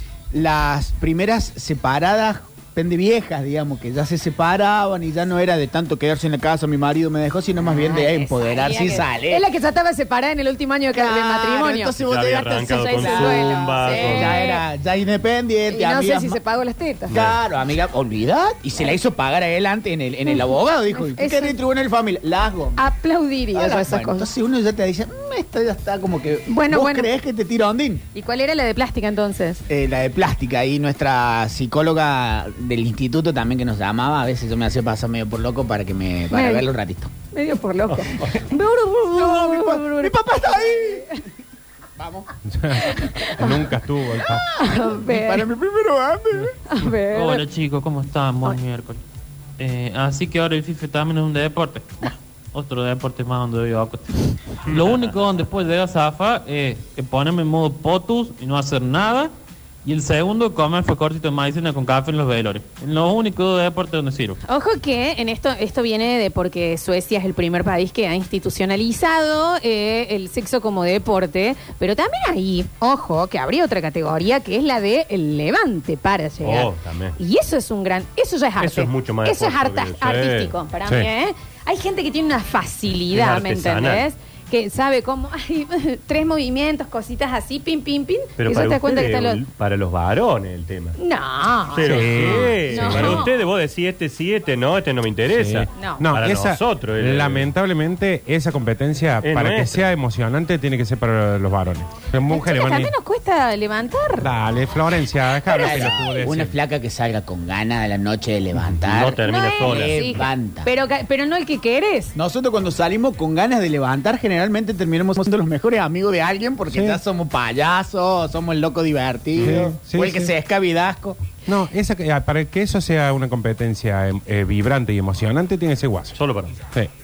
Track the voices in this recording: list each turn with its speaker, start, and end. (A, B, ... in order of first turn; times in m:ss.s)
0:00.3-0:09.4 A
0:07.7-0:12.0 B
0:10.9-0:16.4 A
0:12.0-0:14.4 C
0:12.6-0:14.6 B
0:15.7-0:17.1 B
0:17.1-0:22.8 A
0:17.1-0:17.4 C
0:20.9-0:21.5 B
0:22.8-0:24.3 B
0:23.5-0:28.0 A
0:26.5-0:27.1 B
0:28.1-0:29.6 B
0:29.7-0:37.1 A
0:36.3-0:36.7 B
0:37.3-0:41.2 B
0:39.1-0:41.1 A
0:42.0-0:42.3 A
0:42.5-0:44.5 D
0:42.8-0:45.4 B
0:44.9-0:46.6 A
0:46.7-0:47.4 B
0:47.1-0:49.0 E
0:49.6-0:59.3 E
0:54.7-0:55.0 C
0:59.8-1:04.4 E
1:04.4-1:29.4 B
1:16.4-1:17.2 C
1:18.6-1:20.5 C
1:23.1-1:24.0 C
1:28.4-1:31.0 C
1:31.0-1:33.3 B
1:31.7-1:37.5 C
1:31.8-1:33.2 D
1:35.3-1:42.9 D
1:35.8-1:36.0 B
1:39.2-1:39.8 C
1:42.3-1:44.3 B
1:44.2-1:46.5 D
1:45.5-1:46.2 B
1:45.5-1:50.7 A
1:48.7-1:50.2 C
1:49.2-1:52.1 B
1:52.2-2:01.2 A
1:56.7-1:57.0 D
1:59.4-2:00.3 D
2:01.5-2:06.2 D
2:06.2-2:06.5 C